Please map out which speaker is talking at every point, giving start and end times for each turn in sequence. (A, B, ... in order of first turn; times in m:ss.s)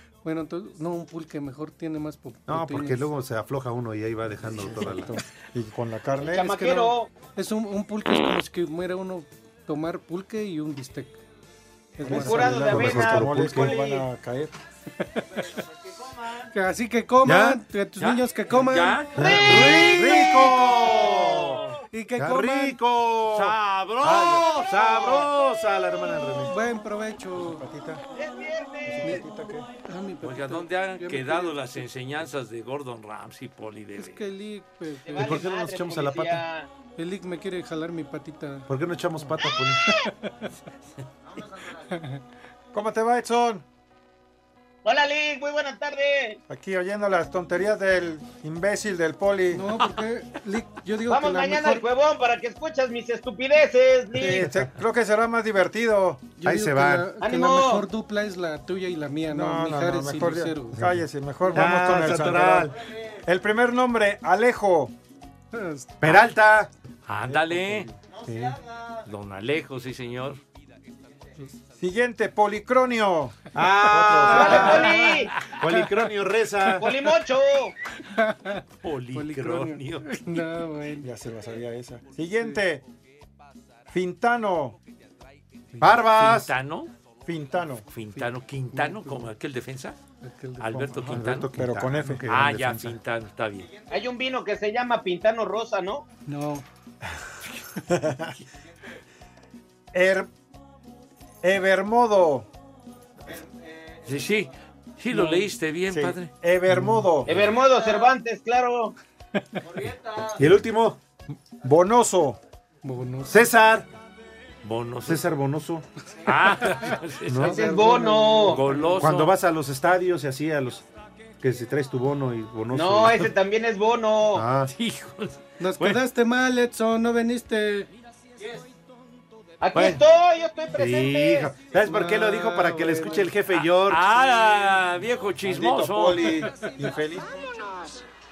0:00.2-0:03.0 A
0:02.5-0:05.2 B
0:04.4-0:06.9 C
0:06.2-0:07.1 D
0:07.4-0:11.2 A
0:12.0-0:12.9 A
0:12.0-0:14.5 C
0:12.1-0:14.0 D
0:12.6-0:13.8 B
0:16.5-0:19.9 A
0:17.2-0:17.6 B
0:18.0-0:21.8 E
0:19.2-0:21.6 B
0:21.9-0:22.8 A
0:22.2-0:26.5 B
0:23.3-0:25.3 E
0:26.4-0:27.6 A
0:27.4-0:28.0 C
0:28.2-0:29.2 D
0:28.8-0:29.7 C
0:29.8-0:31.8 A
0:30.2-0:34.2 E
0:34.0-0:35.5 A
0:35.1-0:36.7 D
0:35.1-0:36.4 B
0:37.0-0:38.7 A
0:38.7-0:39.9 B
0:42.7-0:43.6 C
0:44.8-0:46.4 D
0:46.5-0:49.6 C
0:49.5-0:51.8 A
0:51.1-0:54.5 D
0:54.2-0:56.3 C
0:56.4-1:00.8 A
0:56.4-0:57.1 B
0:57.2-0:57.8 D
0:59.3-1:02.7 C
1:01.5-1:02.7 B
1:03.2-1:04.9 C
1:05.5-1:06.0 A
1:06.0-1:06.7 B
1:07.1-1:07.9 E
1:07.3-1:07.9 C
1:08.2-1:08.6 B
1:09.0-1:10.4 E
1:11.8-1:14.8 C
1:13.5-1:17.0 B
1:13.6-1:15.1 A
1:14.3-1:15.3 D
1:16.8-1:17.7 D
1:18.2-1:18.6 A
1:18.8-1:20.2 E
1:19.1-1:21.1 A
1:21.0-1:22.8 C
1:23.9-1:24.8 C
1:25.8-1:26.5 B
1:26.0-1:26.9 E
1:27.2-1:27.9 C
1:27.9-1:30.0 E
1:28.2-1:29.3 A
1:30.2-1:30.9 A
1:30.6-1:31.5 E
1:30.9-1:33.0 B
1:31.5-1:32.2 C
1:32.3-1:33.7 E
1:33.9-1:36.0 D
1:36.3-1:36.6 A
1:37.9-1:38.3 C
1:39.9-1:40.3 C
1:41.4-1:42.5 C
1:44.0-1:46.3 E
1:45.1-1:45.4 A
1:45.9-1:47.4 C
1:47.2-1:48.9 D
1:50.4-1:51.0 B
1:51.6-1:52.4 C
1:52.8-1:53.4 A
1:53.3-1:53.9 B
1:54.6-1:55.2 E
1:55.0-1:55.8 B
1:56.2-1:57.6 E
1:56.7-1:59.0 A
1:57.3-1:57.6 B
1:57.4-1:58.6 D
1:58.5-1:59.3 E
1:59.0-2:00.8 B
2:01.4-2:03.3 B
2:02.7-2:04.4 D
2:04.3-2:04.7 B
2:04.7-2:06.0 E
2:05.6-2:07.9 A
2:09.6-2:11.5 D
2:10.7-2:14.5 B
2:11.9-2:13.3 A
2:13.5-2:16.4 E
2:15.4-2:17.3 C